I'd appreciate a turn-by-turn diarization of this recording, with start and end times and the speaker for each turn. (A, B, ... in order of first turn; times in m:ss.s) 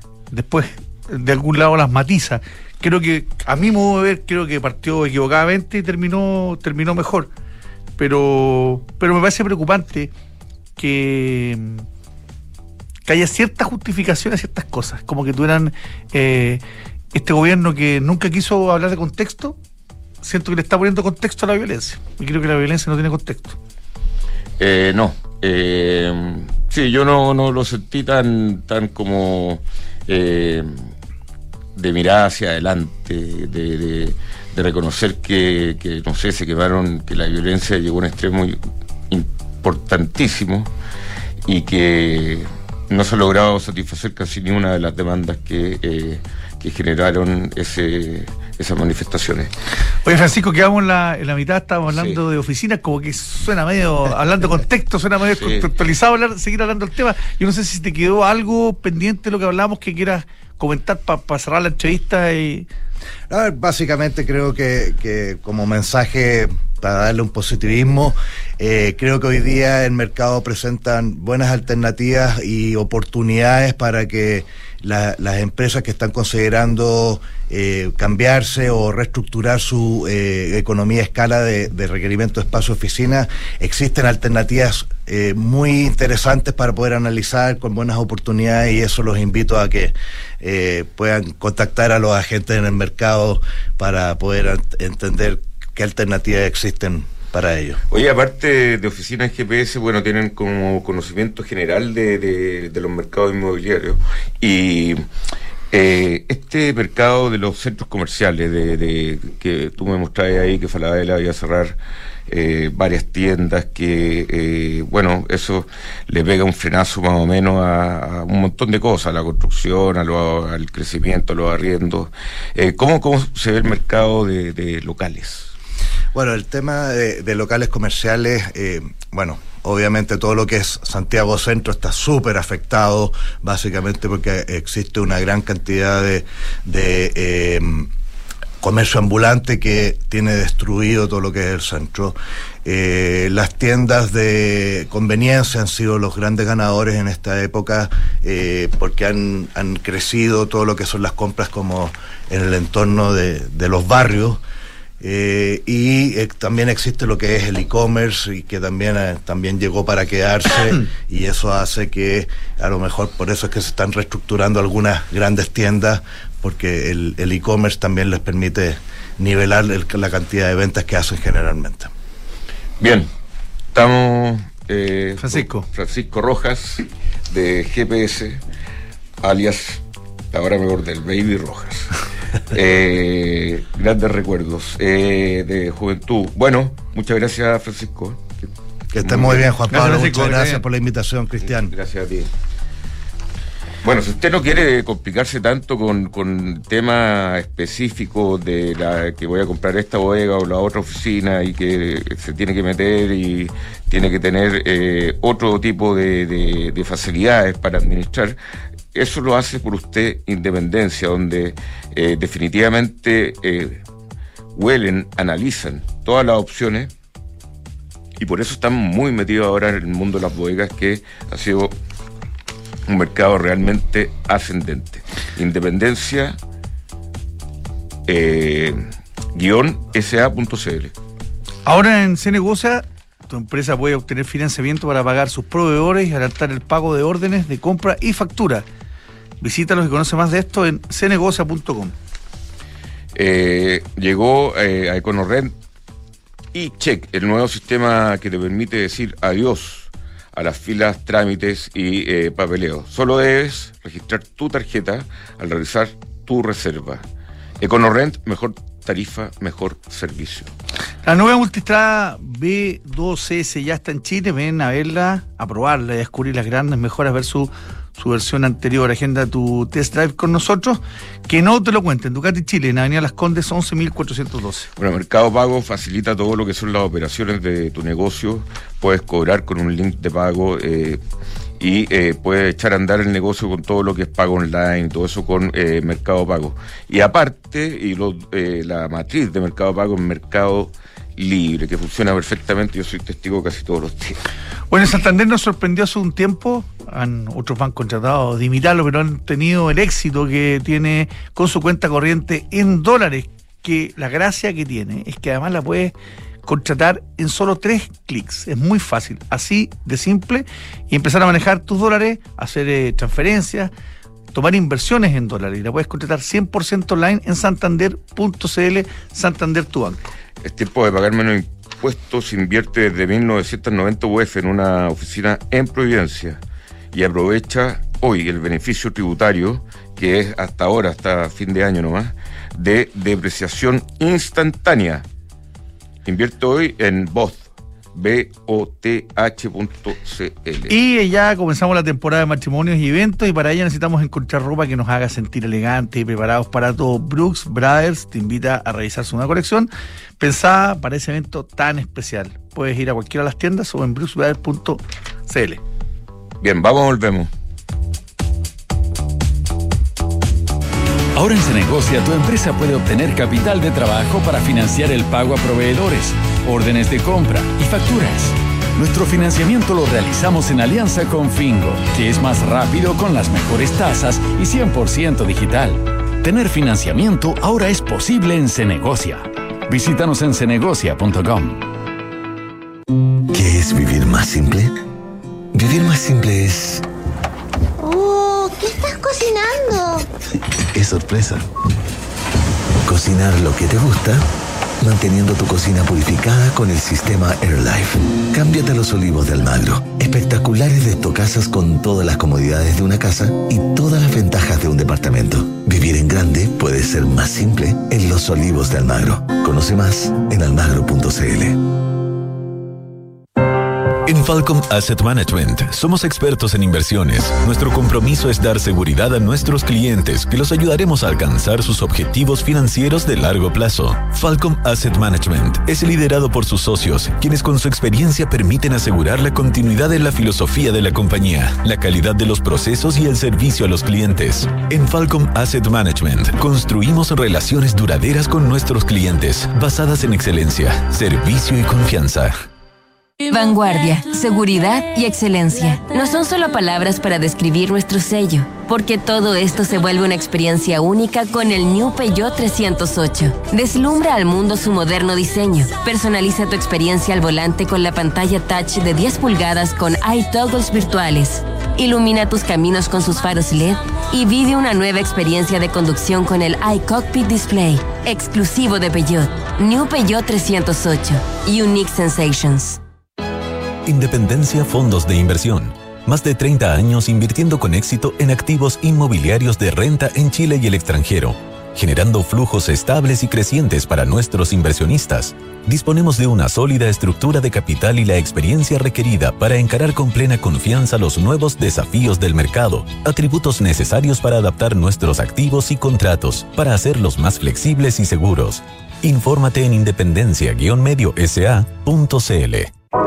0:00.3-0:07.3 A
0:08.0-0:10.1 A
0:10.8-0:11.8 A
0:13.0-0:16.6 A
0:17.1-0:19.6 A
0:20.2-0:23.6 A
0:24.6-0:30.7 B
0:31.8-0:38.6 B
0:39.1-0:40.7 B
0:41.4-0:49.5 B
0:50.0-1:02.7 A
0:51.9-0:52.2 B
0:55.4-0:55.6 B
1:03.3-1:37.8 C
1:37.9-1:45.0 B
1:45.7-1:51.8 B
1:52.3-2:05.5 B
2:06.1-2:17.9 C
2:18.6-2:34.4 C
2:35.0-2:51.9 C
2:52.8-2:53.1 B
2:53.7-2:58.4 B
2:55.2-2:55.6 A
2:59.2-3:01.9 B
3:02.5-3:09.5 B
3:08.9-3:11.7 C
3:09.7-3:10.6 A
3:11.6-3:12.3 B
3:13.8-3:28.4 B
3:28.9-3:33.8 B
3:34.5-3:36.9 B
3:38.2-3:41.7 B
3:42.9-3:46.4 B
3:48.1-3:48.8 B
3:49.3-3:50.9 B
3:51.6-3:58.6 A
3:59.4-4:01.9 A
4:03.1-4:05.5 B
4:06.5-4:17.0 B
4:17.6-4:20.5 B
4:21.0-4:34.7 A
4:34.8-4:41.0 B
4:41.6-4:54.2 B
4:54.7-5:13.7 A
5:14.3-5:20.0 A
5:20.4-5:26.4 B
5:26.9-5:35.0 B
5:36.0-5:40.7 B
5:40.7-5:55.6 A
5:56.4-5:57.3 B
6:01.1-6:21.6 D
6:23.3-6:24.7 E
6:25.5-6:26.8 E
6:27.8-6:30.0 F
6:30.7-6:31.4 E
6:32.8-6:34.2 E
6:34.8-6:51.6 E
6:54.0-7:22.4 G
7:23.2-7:52.8 H
7:53.8-8:22.7 G